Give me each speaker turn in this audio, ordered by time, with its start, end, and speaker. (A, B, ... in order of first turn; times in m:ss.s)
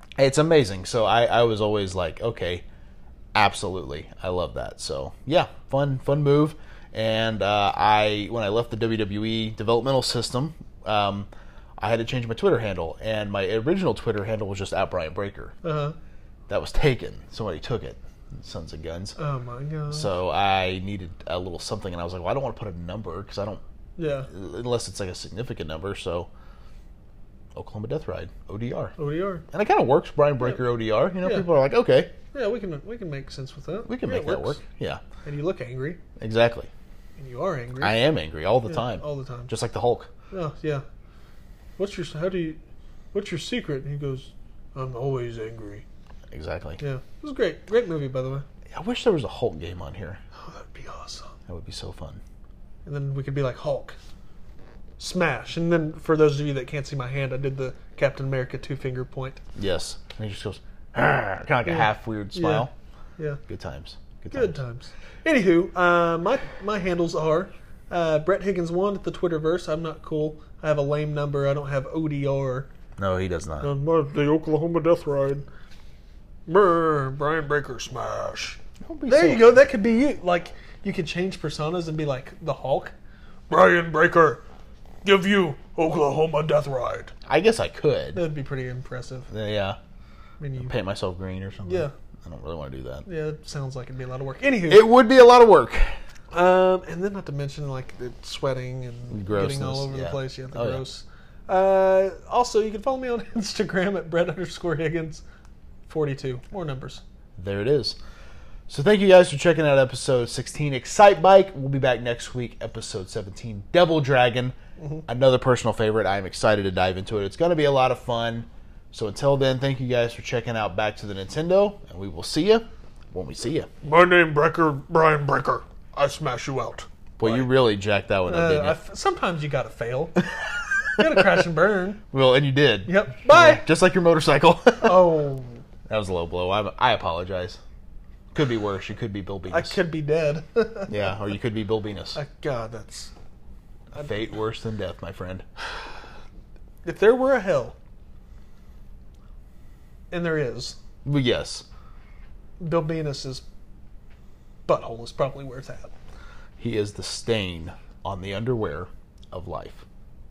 0:00.2-0:02.6 A
0:03.3-0:15.6 A
0:15.6-0:16.0 B
0:16.5-0:19.2 A
0:19.2-0:20.1 B
0:19.9-0:23.6 A
0:24.0-0:24.3 B
0:24.3-0:26.3 A
0:27.5-0:28.9 A
0:29.0-0:29.4 B
0:29.5-0:32.1 A
0:31.2-0:31.5 B
0:32.3-0:34.6 B
0:33.8-0:35.0 A
0:35.2-0:36.0 B
0:36.2-0:36.7 A
0:37.2-0:38.0 B
0:37.8-0:40.1 A
0:38.7-0:39.5 B
0:40.3-0:40.8 B
0:41.8-0:42.6 B
0:43.1-0:45.8 B
0:46.3-0:46.8 A
0:46.8-0:48.4 B
0:48.7-0:50.2 A
0:50.4-0:51.3 B
0:51.5-0:52.2 A
0:52.8-0:54.0 B
0:55.0-0:59.4 B
0:59.5-1:02.7 A
1:01.6-1:03.4 B
1:03.5-1:04.6 A
1:04.3-1:12.7 B
1:13.0-1:13.7 A
1:13.6-1:15.4 B
1:16.5-1:22.9 B
1:18.8-1:19.6 A
1:23.5-1:24.4 B
1:25.0-1:27.1 B
1:27.3-1:28.2 A
1:28.1-1:29.3 B
1:29.3-1:29.8 A
1:30.4-1:30.7 B
1:30.6-1:33.0 A
1:31.6-1:31.9 B
1:33.0-1:34.9 B
1:34.7-1:35.9 A
1:36.3-1:45.2 B
1:39.1-1:40.8 A
1:45.9-1:47.0 B
1:47.4-1:48.0 A
1:48.7-1:54.6 A
1:54.8-1:55.0 B
1:55.1-2:03.7 A
2:03.8-2:07.5 B
2:07.2-2:08.8 A
2:08.3-2:10.2 B
2:11.0-2:12.0 B
2:12.1-2:15.2 A
2:12.8-2:13.6 B
2:14.8-2:15.6 B
2:15.9-2:17.6 A
2:18.3-2:19.8 A
2:19.5-2:20.9 B
2:20.9-2:22.2 A
2:22.1-2:23.1 B
2:23.9-2:25.4 A
2:26.8-2:27.7 B
2:30.1-2:30.8 B
2:31.0-2:31.6 A
2:32.6-2:33.4 B
2:34.6-2:35.9 B
2:36.6-2:39.8 A